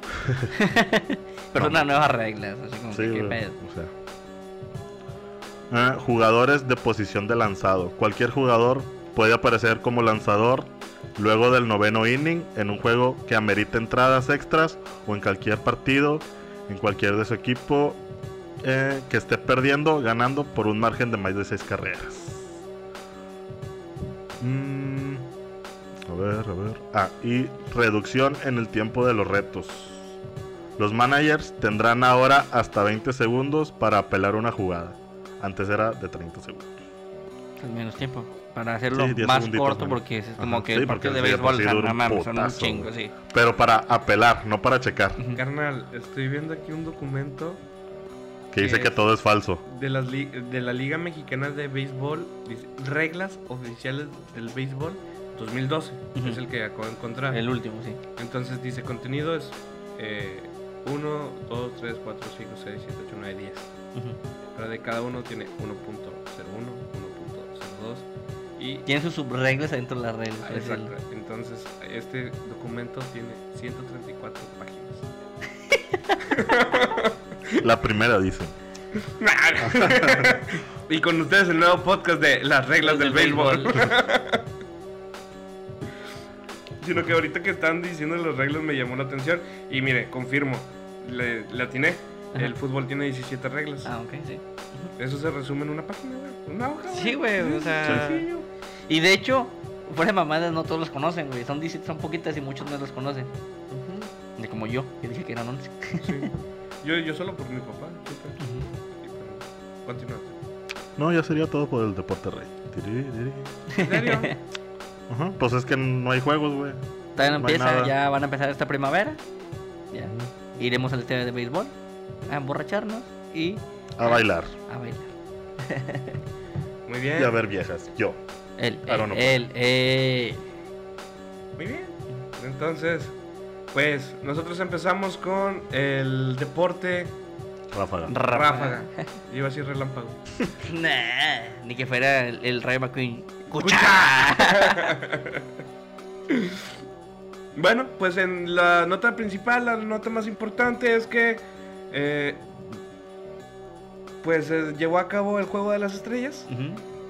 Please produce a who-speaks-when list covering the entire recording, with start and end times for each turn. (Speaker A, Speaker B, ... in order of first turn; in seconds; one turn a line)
Speaker A: 0.2-0.5
Speaker B: 0.5-3.6
Speaker A: 1.6-1.9
Speaker A: 2.9-3.9
Speaker A: 5.7-18.0
Speaker A: 18.6-22.6
Speaker A: 24.4-25.3
Speaker A: 26.1-30.1
Speaker A: 30.8-36.8
Speaker B: 37.6-43.1
Speaker A: 38.9-45.2
Speaker C: 45.4-47.6
Speaker A: 48.5-49.6
Speaker C: 48.6-49.0
Speaker C: 49.6-57.4
Speaker B: 56.2-56.4
Speaker B: 57.3-58.0
Speaker C: 58.2-63.7
Speaker C: 64.5-68.9
Speaker B: 68.9-70.9
Speaker C: 70.4-75.1
Speaker C: 76.3-77.6
Speaker A: 77.6-78.5
Speaker C: 79.0-84.5
Speaker A: 79.6-80.4
Speaker B: 82.8-84.0
Speaker C: 86.8-93.9
Speaker B: 93.8-94.9
Speaker C: 95.0-98.5
Speaker B: 96.9-98.3
Speaker B: 98.9-103.3
Speaker C: 103.7-104.1
Speaker B: 104.4-106.3
Speaker C: 106.0-108.5
Speaker B: 108.4-108.7
Speaker C: 109.0-110.4
Speaker A: 111.0-113.5
Speaker B: 113.7-114.3
Speaker C: 113.8-114.4
Speaker A: 115.1-117.9
Speaker B: 117.2-119.2
Speaker B: 119.9-121.7
Speaker A: 120.0-120.3
Speaker B: 122.2-125.1
Speaker A: 124.0-124.5
Speaker B: 125.6-126.2
Speaker C: 126.9-127.3
Speaker A: 127.2-128.2
Speaker B: 128.6-130.4
Speaker A: 128.9-129.4
Speaker C: 131.6-133.1
Speaker C: 133.7-137.2
Speaker A: 137.7-138.1
Speaker B: 138.1-139.0
Speaker C: 138.3-140.2
Speaker B: 140.6-144.9
Speaker C: 143.6-145.4
Speaker C: 146.3-146.6
Speaker C: 147.6-152.7
Speaker C: 154.2-156.5
Speaker B: 156.5-156.8